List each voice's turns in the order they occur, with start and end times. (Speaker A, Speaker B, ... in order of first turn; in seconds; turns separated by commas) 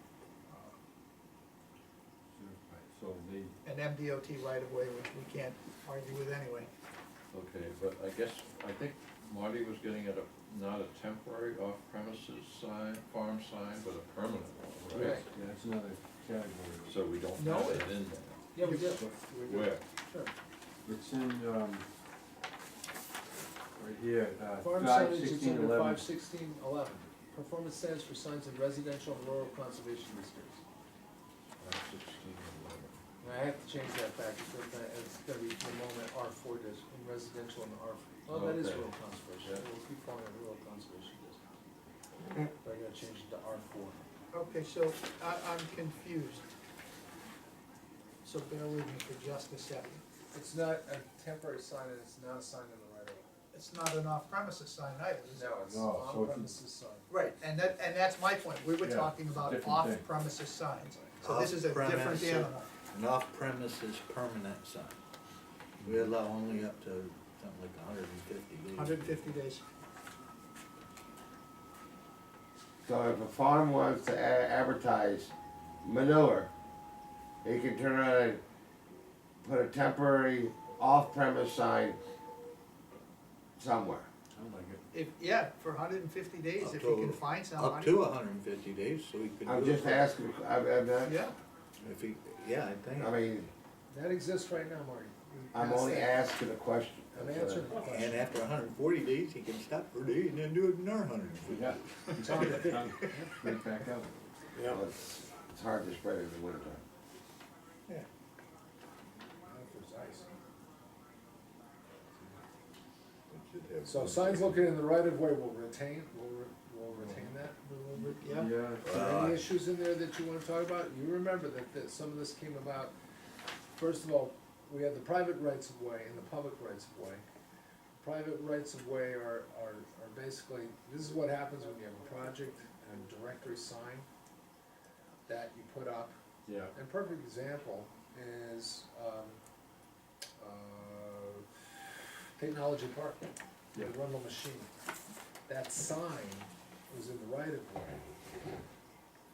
Speaker A: 2.4-3.5, Speaker B: 3.6-6.7, Speaker C: 7.3-15.3, Speaker A: 14.9-16.9, Speaker D: 15.0-15.2, Speaker C: 16.8-19.8, Speaker B: 17.4-17.9, Speaker D: 18.5-20.3, Speaker A: 20.9-21.8, Speaker A: 23.8-26.0, Speaker D: 24.6-30.6, Speaker C: 31.6-32.9, Speaker D: 33.2-41.4, Speaker D: 42.6-44.0, Speaker B: 44.3-46.5, Speaker B: 48.2-50.0, Speaker D: 50.3-53.2, Speaker B: 53.5-55.5, Speaker D: 55.3-57.1, Speaker A: 55.6-56.5, Speaker B: 57.1-62.7, Speaker A: 58.8-60.1, Speaker E: 61.2-65.0, Speaker E: 65.8-69.3, Speaker B: 68.7-69.6, Speaker F: 72.8-75.3, Speaker F: 75.8-76.5, Speaker F: 77.4-78.4, Speaker F: 79.4-82.0, Speaker F: 83.6-84.1, Speaker A: 84.3-84.8, Speaker B: 84.9-88.1, Speaker E: 86.6-90.1, Speaker F: 89.5-91.2, Speaker B: 91.0-91.4, Speaker E: 91.8-93.2, Speaker F: 93.0-93.5, Speaker D: 93.9-96.2, Speaker F: 95.5-97.7, Speaker D: 97.1-98.2, Speaker E: 97.8-102.5, Speaker A: 101.5-104.2, Speaker D: 102.3-103.4, Speaker F: 104.5-106.8, Speaker D: 109.4-110.4, Speaker D: 112.1-112.4, Speaker E: 113.3-114.6, Speaker D: 113.8-118.2, Speaker B: 118.2-118.5, Speaker A: 118.2-118.9, Speaker E: 118.8-119.5, Speaker D: 118.9-122.9, Speaker D: 123.7-127.2, Speaker D: 128.0-134.1, Speaker D: 135.3-136.2, Speaker A: 136.4-136.7, Speaker D: 136.7-139.4, Speaker D: 140.4-141.4, Speaker D: 142.3-144.7, Speaker D: 145.5-148.1